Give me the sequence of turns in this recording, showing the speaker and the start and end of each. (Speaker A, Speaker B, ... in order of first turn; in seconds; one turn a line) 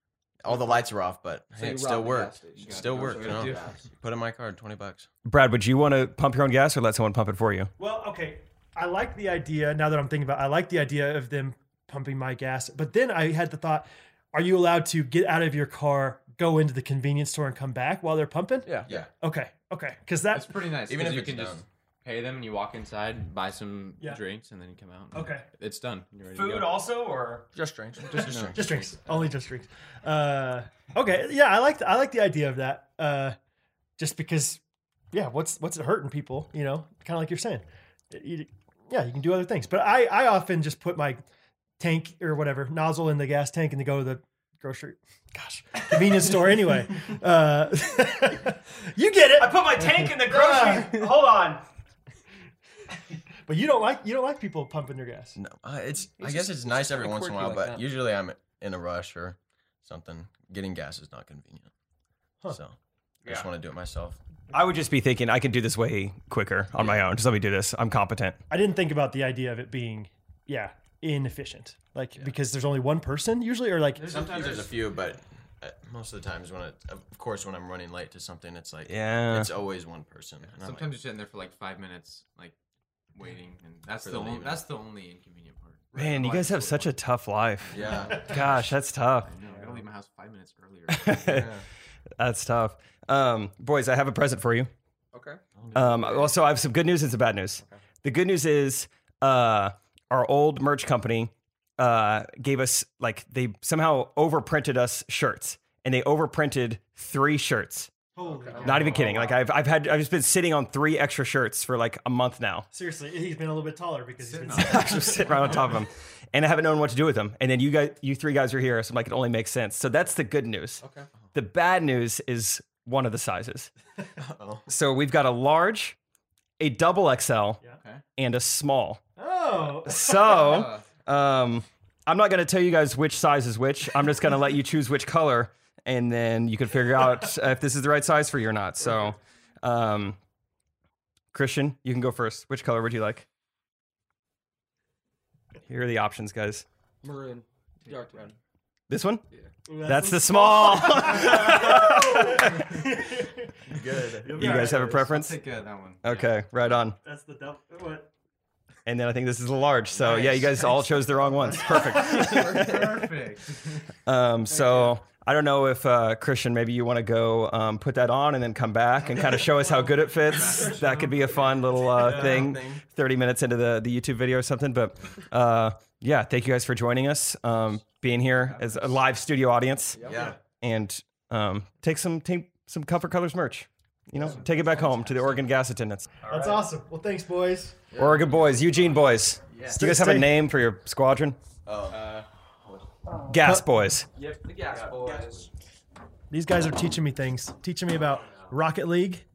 Speaker A: 0.4-5.1
Speaker B: 1.6-3.9
Speaker C: 2.6-3.6
Speaker D: 5.2-7.7
Speaker E: 7.8-18.7
Speaker E: 19.2-20.6
Speaker B: 20.3-26.7
Speaker A: 20.8-21.6
Speaker E: 25.1-25.4
Speaker D: 26.3-27.4
Speaker C: 27.6-28.3
Speaker A: 28.0-28.6
Speaker B: 28.1-29.2
Speaker E: 28.5-33.4
Speaker E: 34.0-34.6
Speaker E: 35.1-41.2
Speaker E: 41.8-51.1
Speaker D: 49.4-51.6
Speaker E: 53.5-55.4
Speaker A: 55.4-61.7
Speaker C: 56.2-57.9
Speaker A: 62.5-64.2
Speaker D: 64.5-68.4
Speaker E: 68.5-74.5
Speaker B: 74.0-74.7
Speaker A: 74.0-80.9
Speaker D: 78.9-79.5
Speaker B: 80.5-82.5
Speaker B: 83.2-87.0
Speaker A: 84.0-84.7
Speaker D: 85.9-89.3
Speaker B: 87.6-88.7
Speaker A: 87.7-88.3
Speaker B: 89.2-91.5
Speaker D: 90.9-91.4
Speaker A: 91.2-91.7
Speaker D: 92.2-94.7
Speaker B: 95.1-95.4
Speaker A: 95.6-96.0
Speaker D: 95.7-107.9
Speaker E: 108.2-109.4
Speaker B: 108.2-108.9
Speaker D: 108.6-112.7
Speaker E: 112.7-115.5
Speaker B: 114.2-115.6
Speaker D: 114.6-120.8
Speaker C: 120.8-121.1
Speaker D: 121.3-123.7
Speaker A: 124.2-124.7
Speaker D: 124.7-126.0
Speaker D: 126.6-127.6
Speaker D: 128.2-129.0
Speaker E: 129.2-130.7
Speaker D: 129.9-140.2
Speaker B: 130.3-130.8
Speaker D: 141.3-143.3
Speaker D: 145.7-146.7
Speaker C: 147.0-148.4
Speaker B: 147.8-148.2
Speaker D: 148.9-149.2
Speaker E: 149.7-153.5
Speaker D: 149.8-152.7
Speaker C: 153.9-154.2
Speaker E: 154.2-155.0
Speaker D: 154.4-155.3
Speaker B: 154.5-156.3
Speaker D: 156.0-157.0
Speaker E: 157.0-158.1
Speaker D: 158.9-162.7
Speaker E: 161.4-162.4
Speaker B: 161.8-163.8
Speaker D: 164.1-180.0
Speaker E: 164.5-164.9
Speaker B: 170.2-171.8
Speaker A: 172.0-172.8
Speaker B: 178.4-178.9
Speaker A: 180.0-180.4
Speaker D: 180.6-186.1
Speaker B: 184.6-185.4
Speaker B: 186.2-186.6
Speaker E: 186.3-187.8
Speaker D: 188.0-191.4
Speaker E: 189.7-190.3
Speaker A: 191.7-192.2
Speaker B: 191.9-192.2
Speaker D: 193.3-194.1
Speaker E: 193.4-193.7
Speaker B: 194.2-195.5
Speaker E: 196.3-199.2